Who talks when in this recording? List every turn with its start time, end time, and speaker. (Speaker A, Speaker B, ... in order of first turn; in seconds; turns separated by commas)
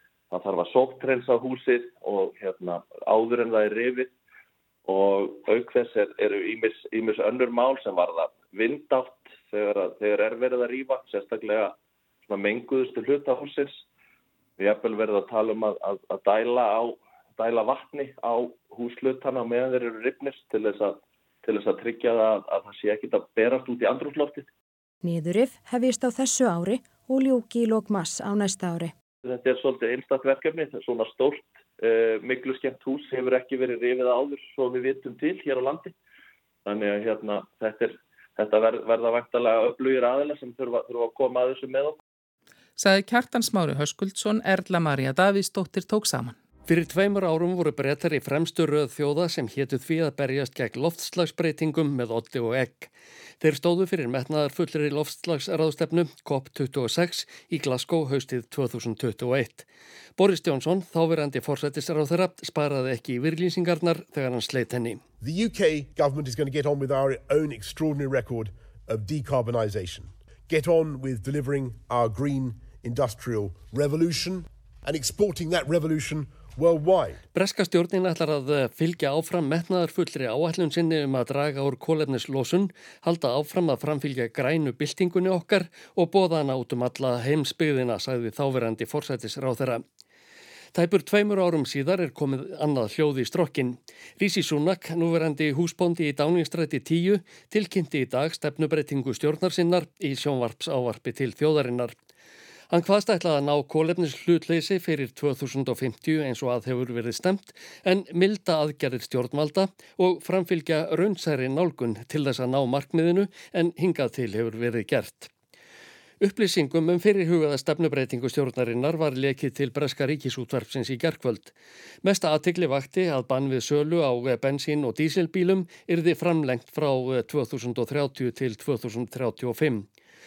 Speaker A: 0.3-4.1, Speaker A: 4.8-11.8, Speaker A: 12.3-13.8, Speaker A: 14.6-24.5, Speaker B: 25.0-28.9, Speaker A: 29.2-35.9, Speaker A: 36.6-42.0, Speaker C: 42.8-46.4, Speaker D: 46.7-59.6, Speaker D: 60.2-65.0, Speaker E: 65.2-77.2, Speaker D: 77.3-89.8, Speaker D: 90.7-101.9, Speaker D: 102.7-115.3, Speaker D: 116.2-121.5, Speaker D: 122.0-129.9